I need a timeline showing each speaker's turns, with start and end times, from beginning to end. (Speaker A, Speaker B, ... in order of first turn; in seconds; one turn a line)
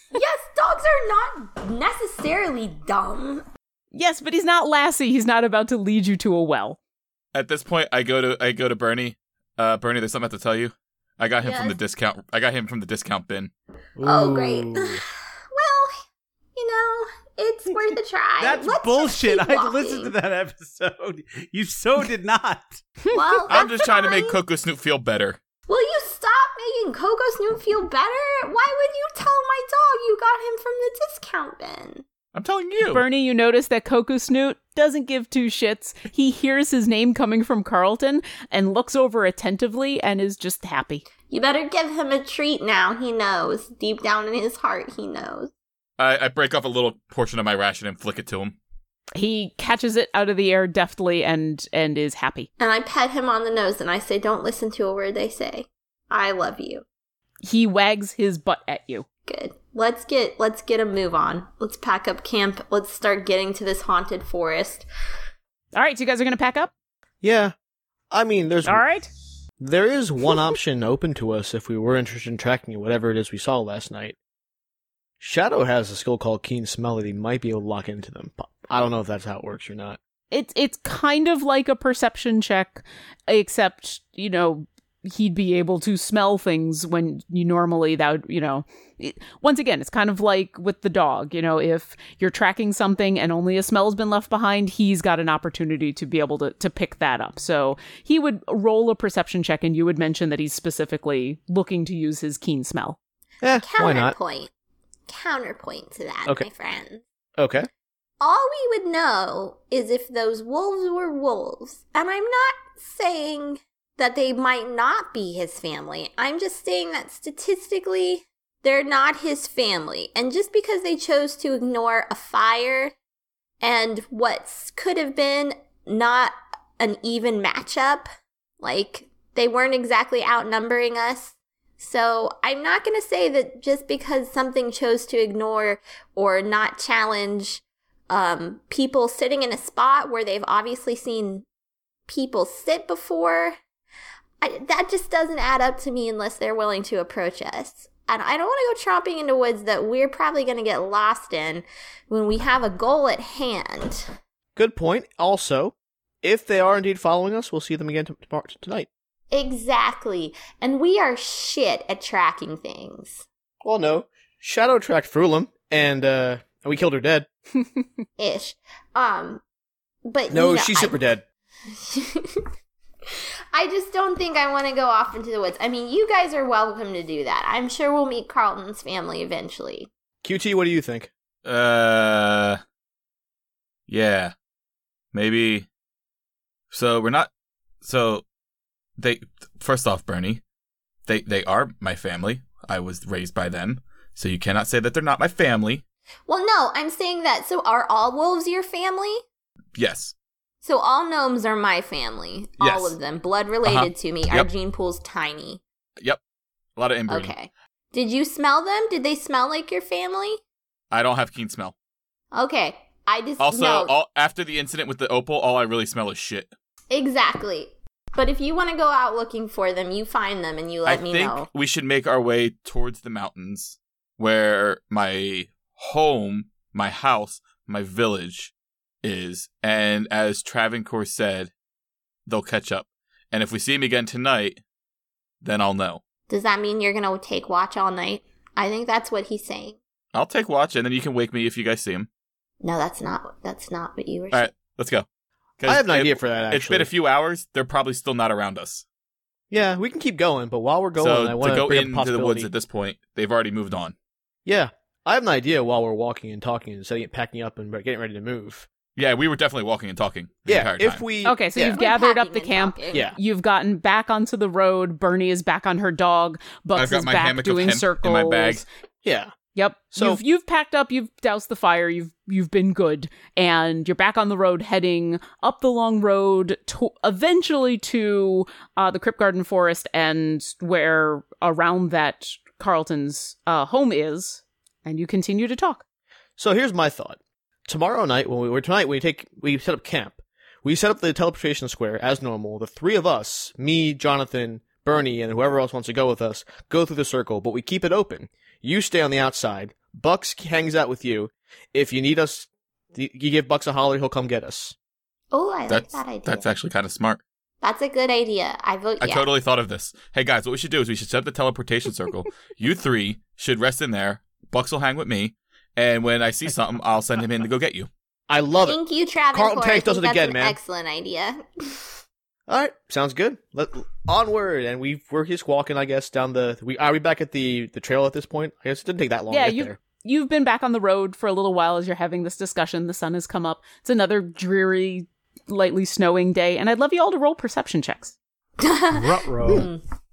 Speaker A: 0.1-3.5
Speaker B: 3.9-6.8
Speaker C: 7.3-13.5
Speaker A: 11.4-11.8
Speaker D: 14.0-15.0
Speaker A: 14.0-15.9
Speaker A: 16.6-20.1
Speaker D: 18.4-22.8
Speaker B: 23.1-23.4
Speaker A: 23.1-24.4
Speaker C: 23.5-25.4
Speaker A: 25.7-32.0
Speaker C: 32.3-33.0
Speaker B: 32.8-41.0
Speaker A: 41.3-45.5
Speaker C: 46.0-48.6
Speaker B: 49.2-52.5
Speaker A: 52.6-56.8
Speaker B: 57.4-59.0
Speaker A: 59.3-64.9
Speaker B: 65.7-66.7
Speaker E: 67.2-67.5
Speaker E: 68.1-68.8
Speaker B: 68.7-69.1
Speaker E: 69.6-74.2
Speaker E: 75.2-80.0
Speaker B: 80.3-103.0
Speaker E: 103.4-104.2
Speaker A: 103.6-104.5
Speaker A: 105.1-107.0
Speaker E: 107.4-107.7
Speaker A: 108.2-122.9
Speaker A: 123.6-128.1
Speaker A: 128.6-141.4
Speaker A: 142.1-143.6
Speaker A: 144.4-154.1
Speaker E: 154.6-158.9
Speaker A: 159.3-163.2
Speaker E: 163.6-167.3
Speaker A: 168.2-169.4
Speaker A: 170.1-171.0
Speaker E: 170.3-171.2
Speaker A: 171.7-172.4
Speaker A: 173.1-179.9
Speaker E: 180.2-181.1
Speaker C: 181.4-182.6
Speaker C: 183.9-184.3
Speaker C: 185.1-185.7
Speaker C: 186.7-187.3
Speaker C: 187.8-188.2
Speaker C: 189.0-190.4
Speaker C: 191.1-195.8
Speaker A: 196.3-199.2
Speaker C: 199.8-200.2
Speaker A: 200.6-205.6
Speaker C: 202.6-203.0
Speaker C: 203.6-204.5
Speaker C: 206.8-207.3
Speaker A: 207.1-210.4
Speaker C: 210.9-211.7
Speaker A: 212.3-213.9
Speaker C: 213.4-216.5
Speaker A: 216.9-221.5
Speaker C: 220.8-228.5
Speaker C: 229.0-231.5
Speaker C: 232.3-234.6
Speaker C: 235.4-236.0
Speaker A: 236.3-239.8
Speaker C: 240.1-242.1
Speaker A: 242.6-244.5
Speaker C: 244.3-245.1
Speaker C: 245.6-248.8
Speaker E: 245.6-246.9
Speaker E: 249.5-252.5
Speaker C: 251.0-253.9
Speaker E: 254.5-258.7
Speaker C: 259.0-261.0
Speaker E: 260.5-261.8
Speaker B: 261.2-268.6
Speaker A: 261.6-263.1
Speaker C: 266.8-268.6
Speaker E: 269.0-269.3
Speaker B: 269.6-285.8
Speaker E: 269.9-270.2
Speaker E: 286.4-304.8
Speaker A: 305.3-306.5
Speaker C: 305.7-307.2
Speaker A: 307.6-309.3
Speaker C: 309.0-317.9
Speaker E: 318.3-318.8
Speaker A: 318.6-322.0
Speaker E: 319.3-320.6
Speaker E: 322.5-329.8
Speaker B: 329.3-338.1
Speaker A: 338.6-339.8
Speaker D: 338.9-339.7